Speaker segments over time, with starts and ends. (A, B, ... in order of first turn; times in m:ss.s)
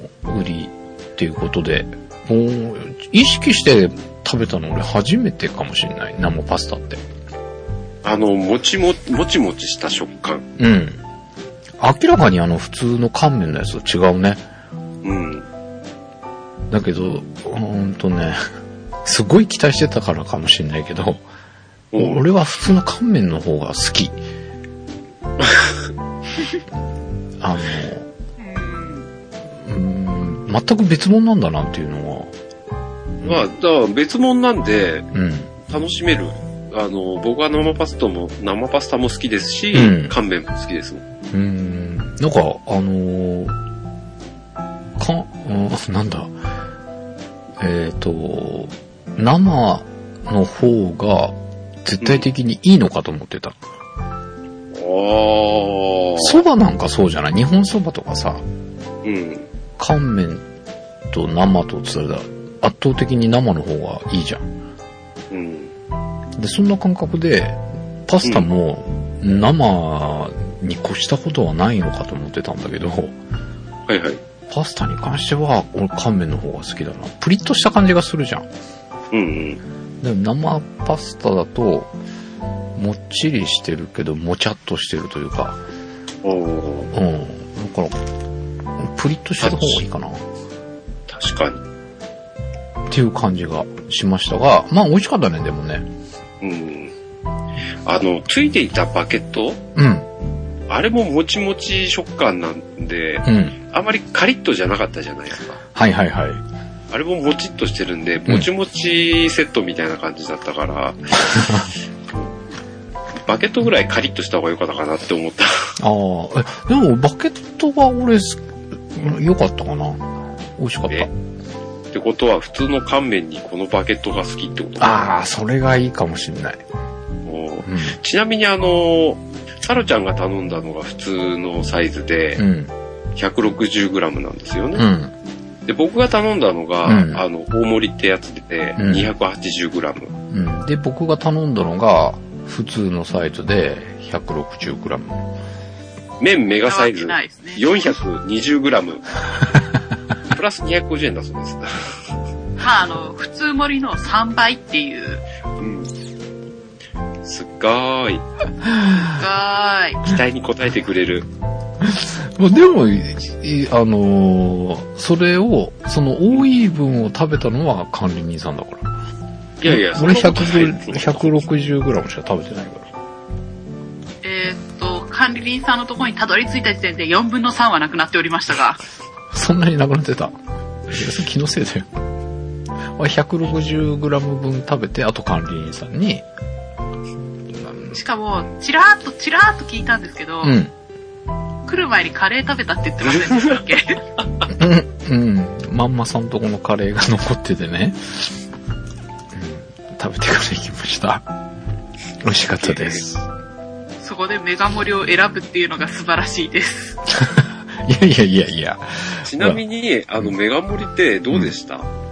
0:00.2-0:07.0 A
0:08.0-0:10.4 B
0:10.6-0:11.0 A
0:11.8-0:14.4 A
0:15.0-0:15.5 B
0:16.7-0:18.4 A
0:19.0-0:21.2 A
0:21.9-0:22.2 B
0:22.0-0:24.2 A
0:25.4-0:25.7 B
0:27.4-0:28.1 A
0:28.4-0:29.1 C
0:29.5-0:32.3 A
0:33.2-0:33.5 A
0:33.2-0:35.1 B
0:35.1-0:35.5 A
0:35.7-0:41.0 B
0:39.7-0:40.2 A
0:41.3-0:43.5 A
0:45.0-0:46.3 A
0:47.6-0:53.6 A
0:54.7-0:56.4 B
0:56.2-0:58.4 A
0:59.0-0:59.5 B
0:59.8-1:00.4 A
1:01.1-1:04.5 A
1:05.3-1:05.7 B
1:06.4-1:13.2 A
1:13.9-1:14.2 B
1:14.5-1:18.5 A
1:19.1-1:19.6 B
1:20.0-1:21.9 A
1:22.8-1:25.6 A
1:26.2-1:26.9 B
1:26.9-1:28.0 A
1:28.8-1:30.2 A
1:29.4-1:29.8 B
1:31.1-1:31.6 B
1:32.9-1:35.9 A
1:36.4-1:36.9 B
1:37.8-1:39.6 B
1:39.8-1:40.1 A
1:40.7-1:45.6 B
1:43.2-1:43.6 A
1:45.7-1:46.4 A
1:46.9-1:52.3 B
1:51.3-1:51.7 A
1:53.2-1:55.8 B
1:55.8-2:00.0 A
2:00.6-2:01.1 A
2:01.9-2:05.0 B
2:04.8-2:06.6 A
2:07.2-2:12.4 B
2:07.6-2:08.0 A
2:12.4-2:12.7 A
2:13.2-2:14.9 B
2:14.7-2:15.1 A
2:15.7-2:20.1 B
2:16.8-2:17.2 A
2:18.8-2:19.1 A
2:20.3-2:25.2 A
2:26.2-2:29.2 B
2:26.7-2:27.7 C
2:30.3-2:32.0 B
2:32.6-2:35.2 C
2:35.6-2:35.9 B
2:37.2-2:38.2 B
2:38.6-2:39.1 A
2:39.0-2:40.0 C
2:40.0-2:41.3 B
2:41.8-2:48.9 A
2:49.6-2:51.4 B
2:49.6-2:52.9 A
2:54.2-2:58.8 C
2:59.3-3:00.3 A
3:00.9-3:01.9 A
3:02.9-3:06.2 A
3:07.5-3:08.0 A
3:07.9-3:10.6 C
3:10.4-3:10.7 A
3:11.6-3:14.0 C
3:13.2-3:13.6 B
3:14.5-3:18.3 A
3:19.3-3:21.2 A
3:22.2-3:23.3 A
3:22.6-3:23.0 B
3:24.0-3:27.0 C
3:27.1-3:29.6 A
3:29.2-3:31.9 B